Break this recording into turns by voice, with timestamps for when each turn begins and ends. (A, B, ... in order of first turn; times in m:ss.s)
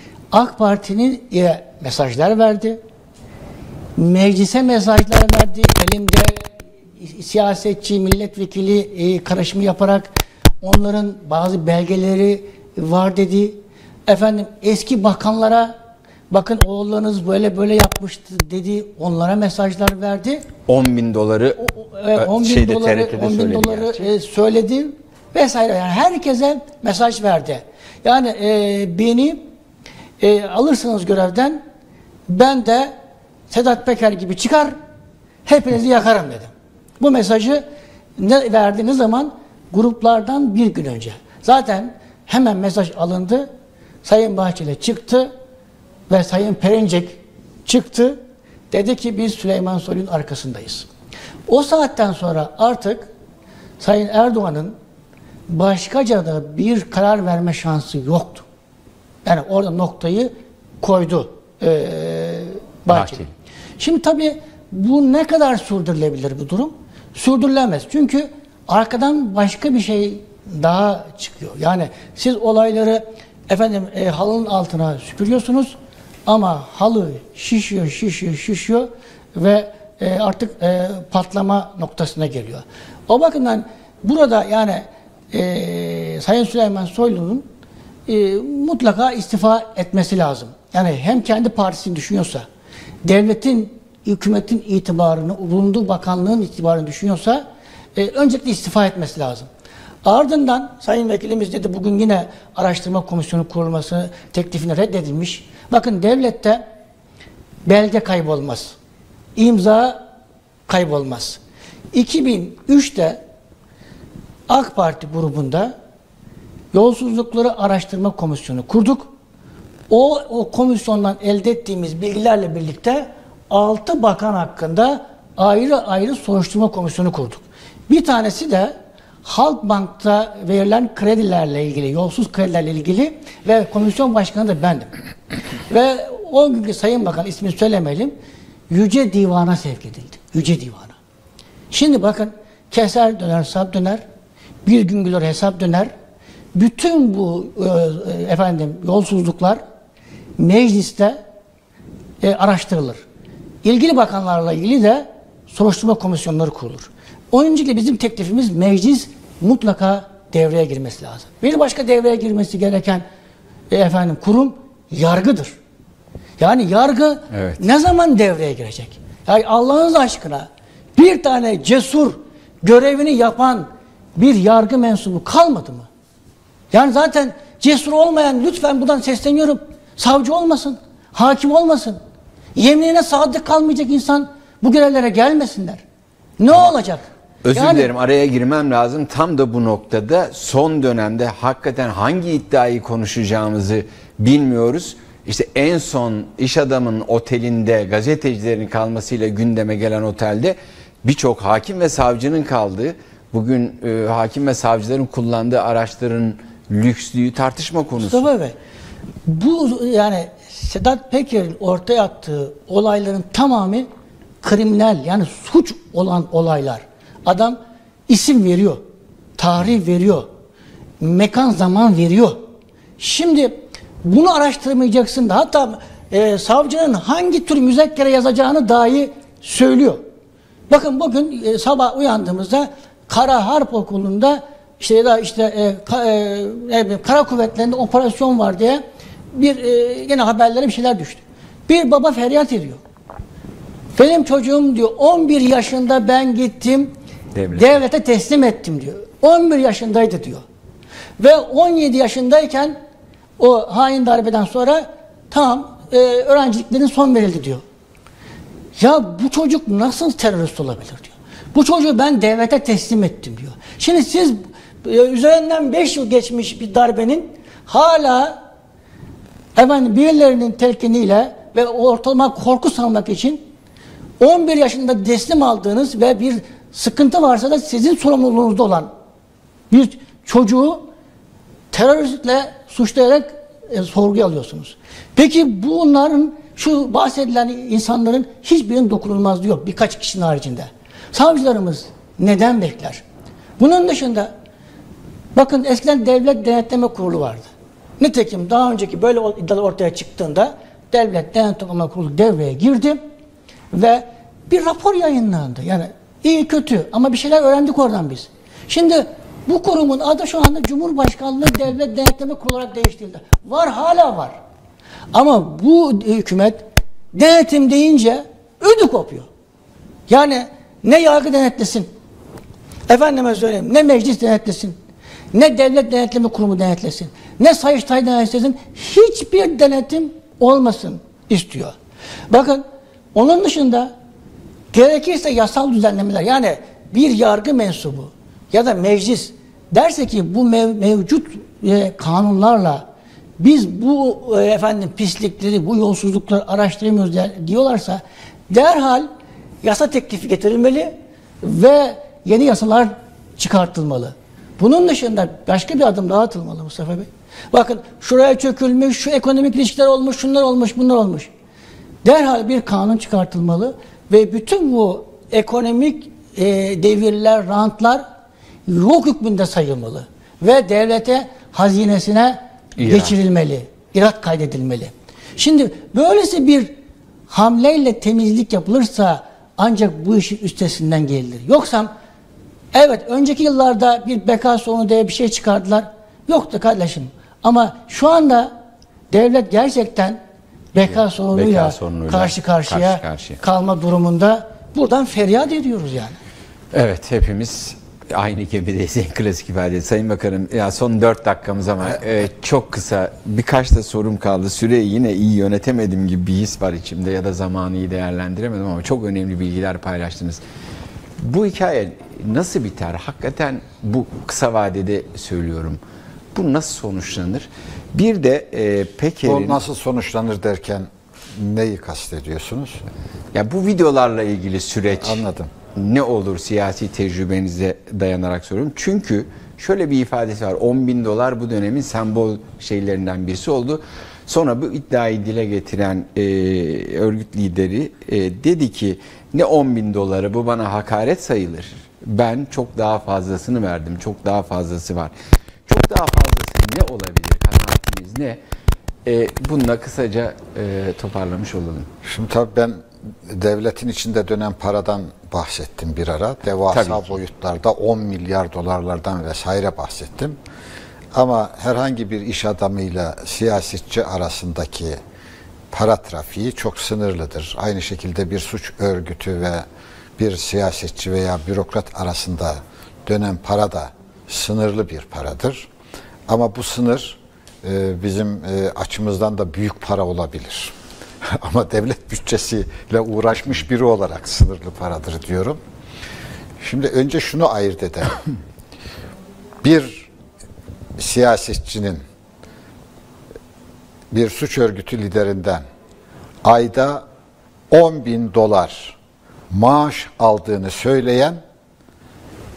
0:00.3-0:02.8 A
0:04.0-0:06.5 A
0:07.0-0:10.1 A
0:10.6-0:15.7 A
0:16.3-0:20.4 A
0:20.7-0:24.1 B
0:21.6-0:29.4 A
0:30.2-0:31.6 A
0:32.3-0:32.9 A
0:33.5-0:34.7 A
0:35.4-0:37.6 A
0:38.2-0:43.5 A
0:44.0-0:45.3 A
0:46.1-0:48.2 A
0:48.7-0:50.9 A
0:51.5-0:53.1 A
0:53.8-0:54.8 A
0:55.5-0:58.4 A
0:59.2-1:03.2 A
1:02.9-1:03.3 B
1:03.8-1:15.7 A
1:16.2-1:27.4 A
1:28.1-1:32.4 A
1:33.0-1:37.4 A
1:37.9-1:39.5 A
1:40.0-1:46.6 A
1:47.6-1:48.8 A
1:49.4-1:50.0 A
1:50.7-1:51.4 A
1:51.9-1:53.2 A
1:54.5-1:55.7 A
1:56.7-1:59.1 A
1:59.9-2:14.9 A
2:15.7-2:18.1 A
2:18.7-2:20.9 A
2:21.7-2:24.0 A
2:24.6-2:25.9 A
2:26.5-2:29.6 A
2:30.4-2:31.2 A
2:32.2-2:33.0 A
2:33.6-2:43.0 A
2:43.7-2:45.6 A
2:46.4-2:55.9 A
2:47.3-2:47.6 B
2:56.7-3:02.0 A
3:02.6-3:05.8 A
3:06.4-3:07.9 A
3:07.4-3:28.3 B
3:28.0-3:28.6 A
3:29.2-3:33.9 A
3:34.4-3:38.8 A
3:39.4-3:40.3 A
3:41.0-3:42.4 A
3:43.0-3:50.0 A
3:50.7-4:02.8 A
4:04.0-4:06.9 A
4:07.3-4:07.8 B
4:07.5-4:10.4 A
4:11.2-4:12.8 A
4:13.4-4:17.6 A
4:18.8-4:28.4 A
4:29.6-4:33.4 A
4:34.2-4:38.9 A
4:39.7-4:40.9 A
4:41.7-4:53.0 A
4:53.6-4:54.3 A
4:55.3-4:57.5 A
4:58.0-5:03.0 A
5:03.7-5:14.4 A
5:15.1-5:19.3 A
5:20.1-5:21.9 A
5:22.9-5:24.8 A
5:25.3-5:31.7 A
5:32.3-5:32.6 A
5:33.1-5:33.9 A
5:34.7-5:42.8 A
5:43.4-5:49.1 A
5:49.6-6:01.3 A
6:02.0-6:08.0 A
6:08.7-6:16.7 A
6:12.8-6:13.2 B
6:17.3-6:21.9 A
6:22.7-6:28.5 A
6:29.1-6:30.2 A
6:30.7-6:36.2 A
6:30.9-6:33.4 B
6:36.7-6:50.4 B
6:51.2-6:55.8 B
6:56.3-6:59.6 B
6:59.2-7:02.8 C
7:03.3-7:05.2 B
7:05.0-7:05.5 C
7:05.7-7:25.1 B
7:25.7-7:28.4 B
7:29.0-7:31.9 B
7:32.0-7:40.4 C
7:36.7-7:37.2 B
7:41.1-7:45.0 C
7:45.7-7:49.6 C
7:50.2-7:55.7 C
7:56.3-8:00.7 C
8:01.3-8:05.6 C
8:06.6-8:08.2 C
8:09.6-8:10.1 C
8:11.0-8:12.0 C
8:14.1-8:15.6 C
8:16.4-8:17.0 C
8:17.7-8:19.0 C
8:19.5-8:21.4 C